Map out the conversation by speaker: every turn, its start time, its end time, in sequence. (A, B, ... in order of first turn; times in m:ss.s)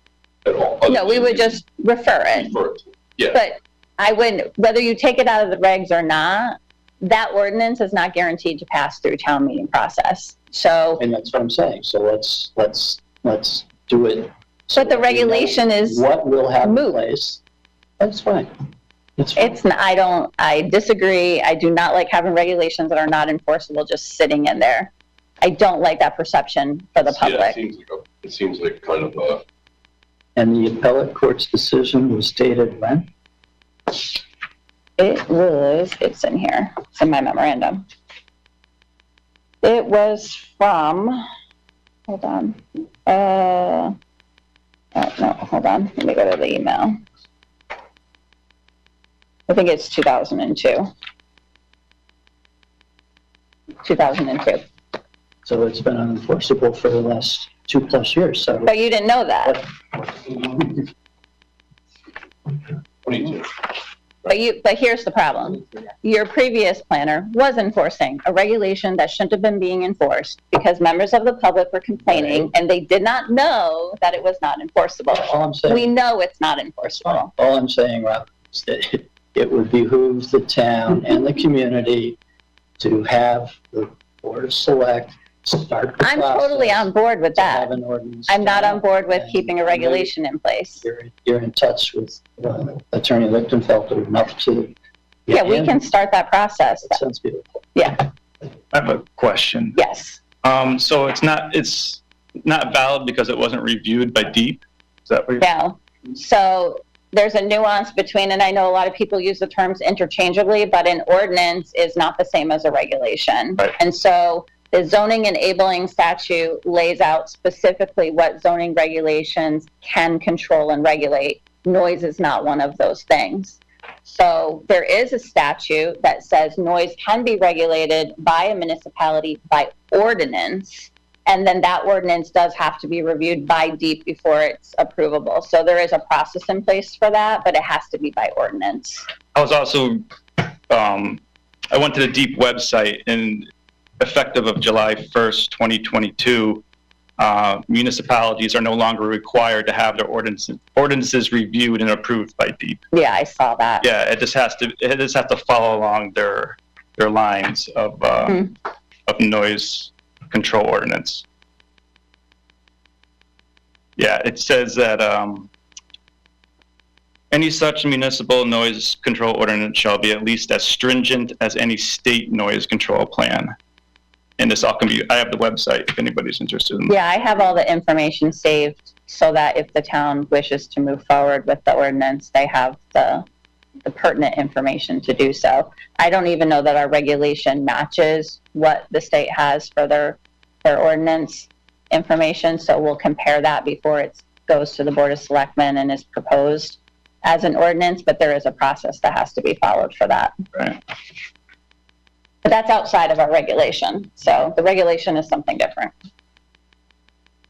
0:00.4-0:01.6 A
0:00.8-0:02.5 B
0:02.2-0:03.4 A
0:03.3-0:11.0 B
0:11.0-0:17.4 C
0:14.7-0:16.0 B
0:16.6-0:17.0 B
0:18.0-0:18.5 C
0:19.2-0:19.6 C
0:19.4-0:27.6 B
0:27.0-0:29.4 A
0:30.4-0:33.1 C
0:35.0-0:37.8 B
0:39.6-0:41.2 B
0:42.1-0:43.9 B
0:44.9-0:47.0 B
0:49.5-0:50.9 B
0:53.8-0:54.6 B
0:55.4-0:58.7 C
0:58.6-0:59.6 B
1:03.0-1:03.4 A
1:04.2-1:17.3 B
1:12.1-1:12.5 C
1:15.1-1:15.9 C
1:16.8-1:22.2 C
1:22.8-1:30.1 C
1:26.0-1:27.7 B
1:28.3-1:30.8 B
1:30.8-1:34.7 C
1:35.3-1:35.8 C
1:35.3-1:37.0 B
1:36.8-1:37.5 C
1:37.7-1:38.0 B
1:38.7-1:39.8 D
1:39.7-1:40.2 B
1:40.4-1:45.4 D
1:45.4-2:19.0 B
2:19.3-2:26.6 D
2:27.2-2:32.8 D
2:32.9-2:33.8 B
2:33.8-2:38.4 D
2:39.1-2:41.2 D
2:44.0-2:45.5 D
2:47.3-2:53.5 D
2:54.4-2:57.0 D
2:56.9-3:03.3 B
3:03.8-3:20.3 B
3:22.4-3:25.9 B